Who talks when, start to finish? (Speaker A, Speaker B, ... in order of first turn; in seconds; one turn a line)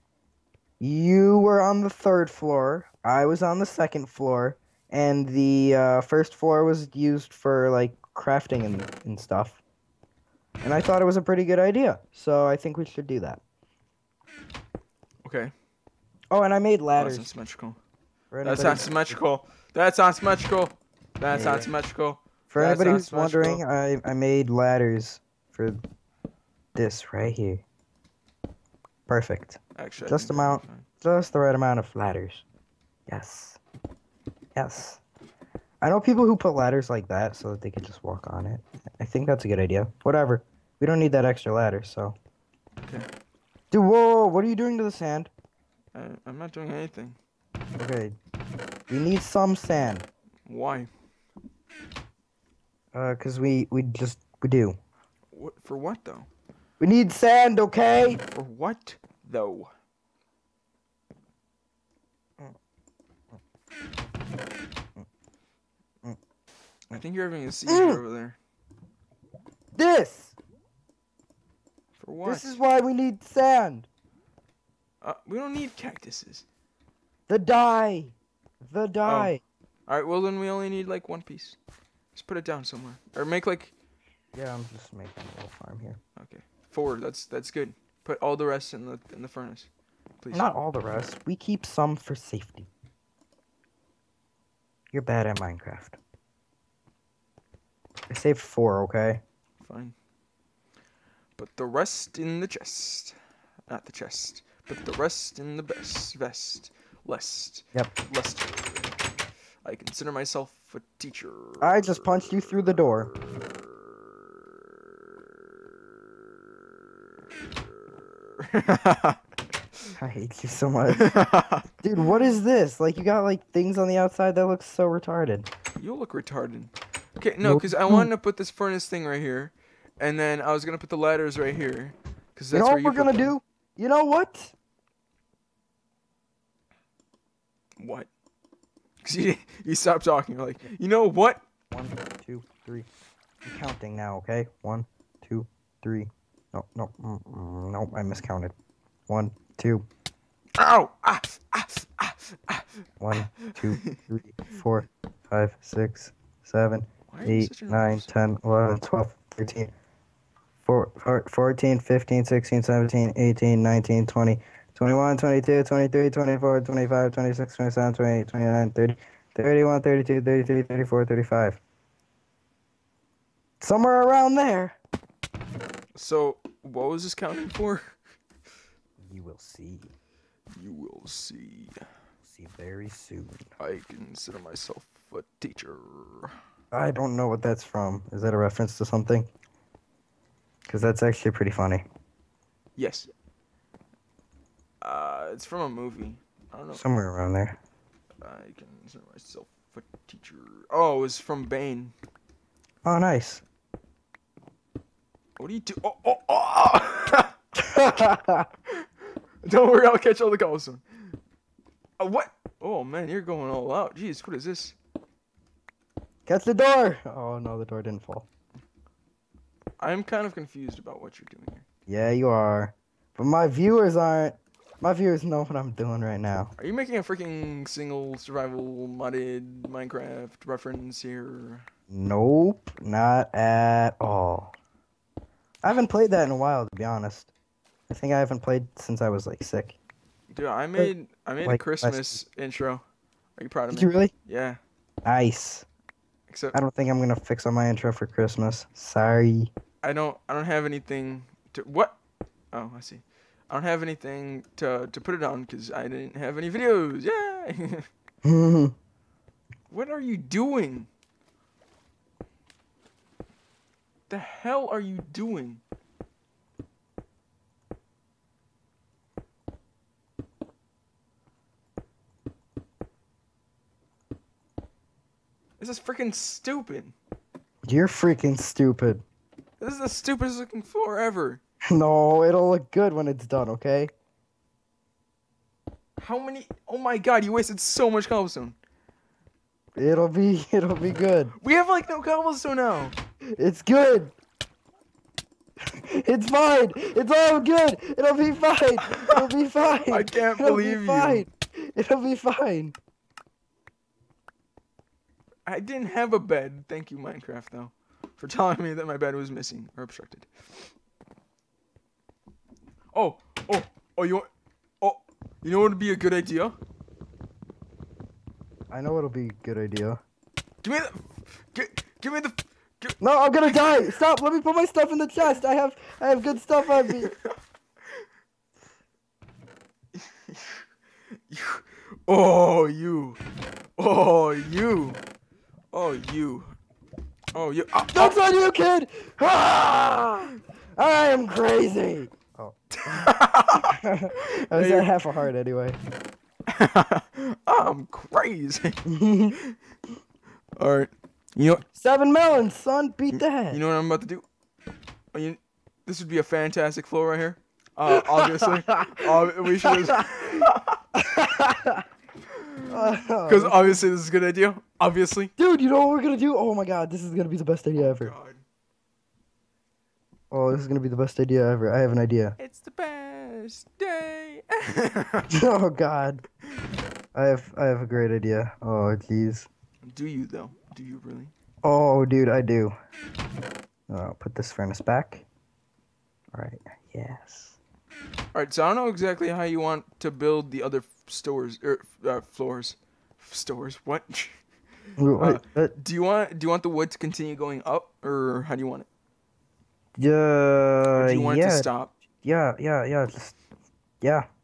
Speaker A: 0.8-9.6
Speaker A: 10.6-13.4
Speaker B: 15.2-15.5
Speaker A: 16.3-17.3
Speaker B: 17.0-17.8
Speaker A: 18.3-19.2
Speaker B: 18.4-23.6
Speaker A: 21.3-21.7
Speaker A: 22.5-25.8
Speaker A: 26.8-27.6
Speaker A: 29.1-32.5
Speaker B: 29.8-30.9
Speaker A: 33.1-33.6
Speaker A: 34.6-35.0
Speaker A: 35.8-42.2
Speaker A: 43.7-45.3
Speaker B: 45.9-47.2
Speaker A: 47.8-48.1
Speaker A: 48.9-50.1
Speaker B: 50.5-50.9
Speaker A: 52.9-54.8
Speaker B: 55.3-56.3
Speaker A: 56.8-58.2
Speaker B: 58.3-59.7
Speaker B: 66.9-68.4
Speaker A: 67.7-68.0
Speaker A: 69.8-70.4
Speaker B: 72.0-72.6
Speaker A: 72.2-73.9
Speaker B: 75.0-76.5
Speaker A: 77.3-79.4
Speaker B: 79.0-79.3
Speaker B: 79.9-81.6
Speaker B: 82.2-83.7
Speaker A: 84.3-86.0
Speaker B: 86.2-89.7
Speaker B: 90.2-90.5
Speaker A: 90.3-92.7
Speaker A: 94.9-96.0
Speaker A: 98.1-99.2
Speaker B: 99.6-100.0
Speaker B: 101.4-103.2
Speaker B: 103.7-109.0
Speaker B: 109.6-113.7
Speaker A: 111.6-113.1
Speaker B: 117.4-119.2
Speaker A: 120.0-121.1
Speaker B: 120.9-121.7
Speaker A: 121.8-125.5
Speaker B: 125.8-133.4
Speaker A: 127.4-128.1
Speaker A: 132.5-134.6
Speaker B: 137.8-138.1
Speaker B: 139.0-141.4
Speaker A: 141.7-142.9
Speaker A: 143.4-148.5
Speaker A: 149.1-149.9
Speaker B: 150.6-152.7
Speaker A: 153.0-159.7
Speaker B: 153.5-154.0
Speaker B: 157.1-158.1
Speaker A: 160.7-171.6
Speaker A: 173.6-174.8
Speaker B: 175.9-178.0
Speaker A: 179.0-179.9
Speaker B: 180.5-181.8
Speaker A: 182.2-183.5
Speaker B: 183.6-186.3
Speaker A: 186.7-189.3
Speaker A: 190.7-191.8
Speaker B: 192.8-193.1
Speaker B: 194.8-196.8
Speaker A: 196.7-197.6
Speaker B: 198.2-201.9
Speaker A: 202.8-203.4
Speaker B: 205.4-207.3
Speaker A: 207.7-208.5
Speaker B: 209.4-210.9
Speaker B: 212.0-214.8
Speaker A: 216.3-218.3
Speaker B: 219.8-221.6
Speaker A: 221.9-226.5
Speaker B: 226.6-231.7
Speaker A: 231.9-234.5
Speaker A: 235.6-237.3
Speaker A: 237.9-239.8
Speaker B: 240.3-242.8
Speaker A: 241.4-242.2
Speaker B: 243.4-244.6
Speaker A: 243.7-244.1
Speaker A: 245.1-245.7
Speaker B: 246.3-246.6
Speaker A: 246.5-249.5
Speaker B: 249.8-252.0
Speaker B: 252.5-257.9
Speaker A: 258.2-258.8
Speaker B: 259.7-260.9
Speaker B: 264.1-265.6
Speaker B: 275.6-277.0
Speaker A: 277.7-279.0
Speaker B: 279.6-281.4
Speaker A: 281.7-283.9
Speaker B: 286.0-288.6
Speaker A: 289.8-291.3
Speaker B: 291.4-292.9
Speaker A: 293.3-294.1
Speaker A: 295.9-302.8
Speaker B: 298.9-299.2
Speaker B: 299.9-301.2
Speaker B: 305.5-310.7
Speaker B: 312.9-314.3
Speaker B: 314.8-316.6
Speaker A: 318.7-320.0
Speaker B: 320.6-324.0
Speaker A: 323.0-327.1
Speaker B: 326.8-327.3
Speaker B: 330.2-330.6
Speaker B: 331.3-333.2
Speaker B: 333.8-335.0
Speaker B: 335.7-336.5
Speaker B: 337.3-338.2
Speaker A: 337.9-343.1
Speaker B: 342.7-344.9
Speaker A: 343.6-345.8
Speaker B: 346.5-348.8
Speaker A: 348.9-349.4
Speaker B: 350.6-351.6
Speaker A: 351.8-353.6
Speaker B: 353.1-354.2
Speaker B: 355.1-360.8
Speaker A: 357.9-360.1
Speaker A: 361.0-361.8
Speaker B: 362.3-362.7
Speaker A: 362.7-363.9
Speaker B: 363.2-365.3
Speaker A: 365.4-368.1
Speaker B: 367.8-368.4
Speaker A: 370.3-372.4
Speaker B: 372.4-375.3
Speaker A: 375.3-376.2
Speaker A: 377.1-379.5
Speaker B: 379.8-381.3
Speaker A: 381.6-382.7
Speaker A: 383.9-385.2
Speaker A: 386.3-387.6
Speaker B: 388.3-394.4
Speaker A: 395.0-395.7
Speaker B: 395.2-398.9
Speaker A: 400.0-401.7
Speaker B: 400.9-402.0
Speaker A: 402.2-403.4
Speaker A: 404.0-404.3